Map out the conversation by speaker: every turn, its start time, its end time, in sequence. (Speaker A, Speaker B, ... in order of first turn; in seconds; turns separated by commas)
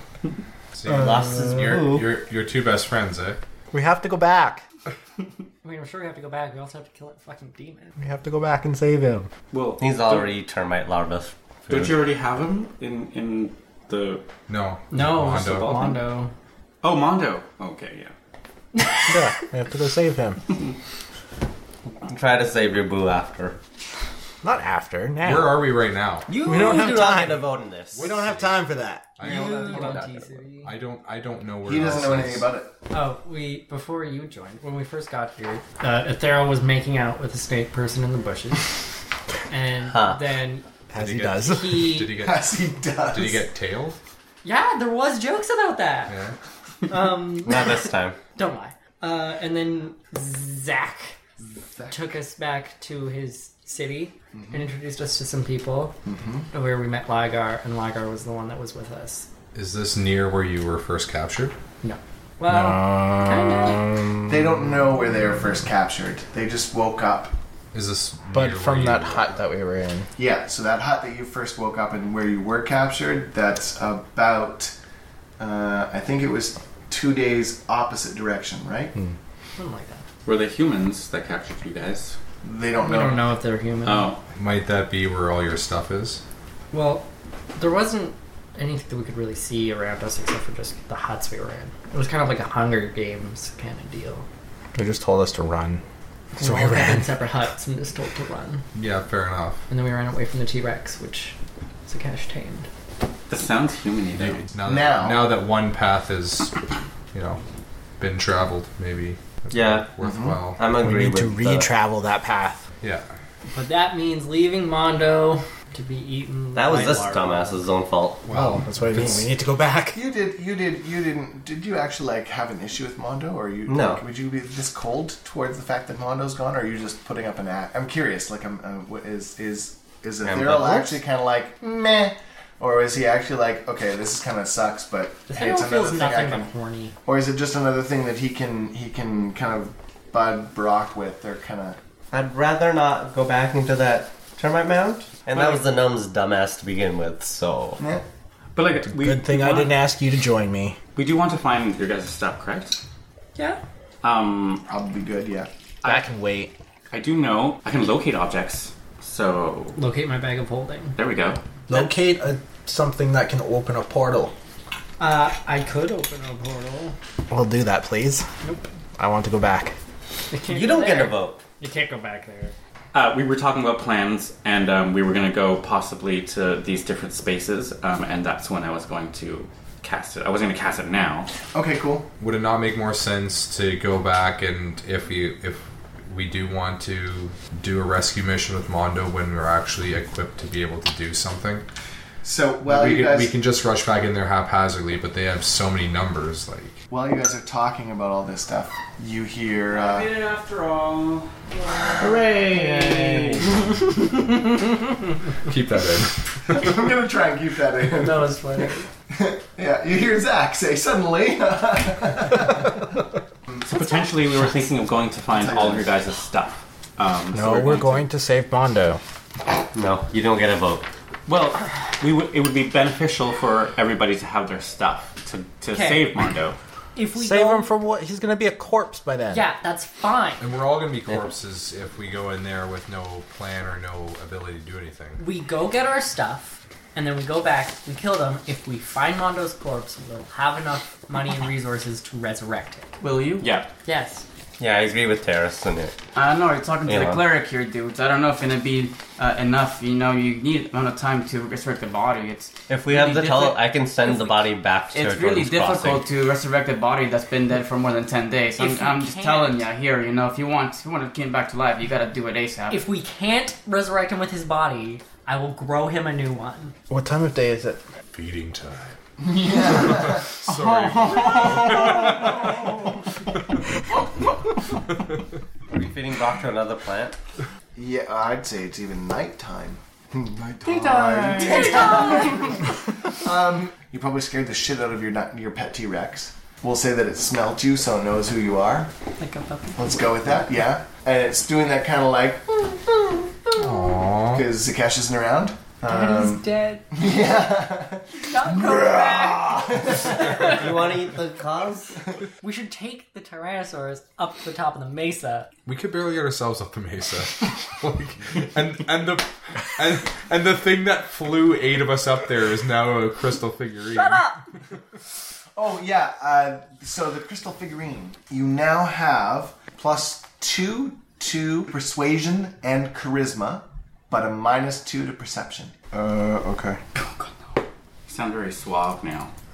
Speaker A: 0.7-3.4, Speaker B: 0.9-2.1, Speaker C: 3.7-4.6, Speaker D: 5.6-7.9, Speaker C: 8.0-9.3, Speaker E: 9.5-10.3, Speaker B: 9.8-12.0, Speaker E: 11.7-14.2, Speaker A: 14.5-15.9, Speaker D: 14.9-16.3, Speaker E: 15.3-15.9, Speaker E: 16.8-18.1, Speaker D: 18.8-19.2, Speaker C: 19.1-20.4, Speaker B: 22.0-23.6, Speaker C: 24.4-25.7, Speaker A: 25.2-26.3, Speaker B: 26.3-28.2, Speaker C: 26.4-27.4, Speaker A: 27.9-28.6, Speaker C: 27.9-29.1, Speaker A: 29.1-30.0, Speaker D: 29.2-30.7, Speaker B: 29.2-30.4, Speaker A: 30.5-32.5, Speaker F: 31.6-32.7, Speaker D: 32.9-38.7, Speaker D: 39.5-40.6, Speaker B: 39.8-40.2, Speaker C: 40.9-41.8, Speaker A: 41.0-42.5, Speaker D: 41.4-42.1, Speaker F: 42.1-43.5, Speaker A: 43.1-44.0, Speaker D: 44.4-46.1, Speaker A: 46.1-46.3, Speaker D: 46.9-47.7, Speaker B: 47.4-48.2, Speaker D: 48.4-51.1, Speaker F: 51.4-52.2, Speaker D: 51.9-56.0, Speaker F: 54.3-54.6, Speaker F: 56.0-56.5, Speaker D: 56.5-59.3, Speaker A: 59.5-61.5, Speaker D: 61.8-63.9, Speaker C: 62.5-64.5, Speaker F: 64.2-67.3, Speaker A: 67.7-69.4, Speaker C: 68.3-70.1, Speaker F: 70.2-74.7, Speaker F: 75.4-78.9, Speaker D: 79.6-80.0, Speaker E: 80.2-82.1, Speaker F: 82.4-83.3, Speaker D: 82.8-84.1, Speaker E: 83.8-84.2, Speaker A: 84.3-86.2, Speaker D: 86.7-94.2, Speaker C: 94.7-95.8, Speaker D: 96.3-98.6, Speaker C: 96.4-97.2, Speaker A: 98.7-99.6, Speaker D: 99.7-101.3, Speaker D: 101.9-102.7, Speaker E: 103.3-104.5, Speaker A: 104.5-106.5, Speaker F: 104.6-105.4, Speaker A: 107.1-107.4, Speaker A: 108.0-110.6, Speaker B: 109.5-109.9, Speaker F: 110.0-110.5, Speaker B: 110.5-111.7, Speaker C: 110.8-112.6, Speaker A: 112.8-113.0, Speaker D: 113.5-117.6, Speaker B: 116.5-118.3, Speaker A: 118.2-119.2, Speaker C: 118.3-120.0, Speaker F: 119.9-136.5, Speaker B: 123.7-124.0, Speaker B: 130.2-131.0, Speaker D: 135.3-136.9, Speaker F: 137.0-141.8, Speaker B: 142.1-147.8, Speaker F: 147.8-148.0, Speaker E: 148.5-149.8, Speaker C: 148.9-150.8, Speaker E: 150.9-152.8, Speaker E: 154.0-154.6, Speaker F: 154.7-155.5, Speaker C: 155.8-156.5, Speaker E: 156.9-159.8, Speaker D: 159.8-160.9, Speaker E: 160.9-161.4, Speaker C: 161.7-164.3, Speaker D: 165.0-166.9, Speaker C: 167.3-168.2, Speaker D: 168.4-168.7, Speaker C: 169.0-169.8, Speaker D: 170.3-172.5, Speaker B: 170.4-171.4, Speaker E: 172.9-181.3, Speaker F: 181.5-182.1, Speaker A: 182.2-191.7, Speaker F: 192.2-193.4, Speaker A: 192.6-196.8, Speaker F: 196.9-200.1, Speaker G: 199.7-203.4, Speaker E: 202.2-203.4, Speaker A: 205.4-206.8, Speaker F: 206.5-212.9, Speaker D: 207.9-208.9, Speaker E: 213.6-218.1, Speaker F: 215.3-216.0, Speaker C: 217.3-219.0, Speaker B: 219.7-220.9, Speaker E: 221.3-226.6, Speaker D: 225.7-226.1, Speaker D: 226.9-227.7, Speaker C: 227.1-229.4, Speaker D: 229.3-230.4, Speaker A: 230.4-235.2, Speaker D: 235.2-242.9, Speaker G: 243.0-243.4, Speaker E: 243.4-243.7, Speaker D: 243.8-244.2, Speaker B: 244.6-245.9, Speaker G: 246.1-262.8, Speaker B: 246.8-247.2, Speaker B: 252.7-256.0, Speaker D: 258.6-259.6, Speaker D: 262.7-266.7, Speaker C: 266.9-267.8, Speaker A: 268.1-268.9, Speaker F: 269.2-270.3, Speaker A: 269.6-272.5, Speaker B: 275.7-277.1, Speaker F: 277.8-288.9, Speaker D: 280.6-282.6, Speaker D: 289.2-289.8, Speaker F: 289.8-300.6, Speaker A: 293.5-294.4, Speaker D: 295.8-296.9, Speaker D: 298.2-300.7, Speaker B: 300.4-301.9, Speaker D: 302.4-305.5, Speaker A: 305.6-314.3, Speaker D: 313.9-314.4, Speaker F: 315.6-325.8, Speaker C: 325.9-326.8, Speaker G: 327.0-327.3, Speaker E: 328.1-329.3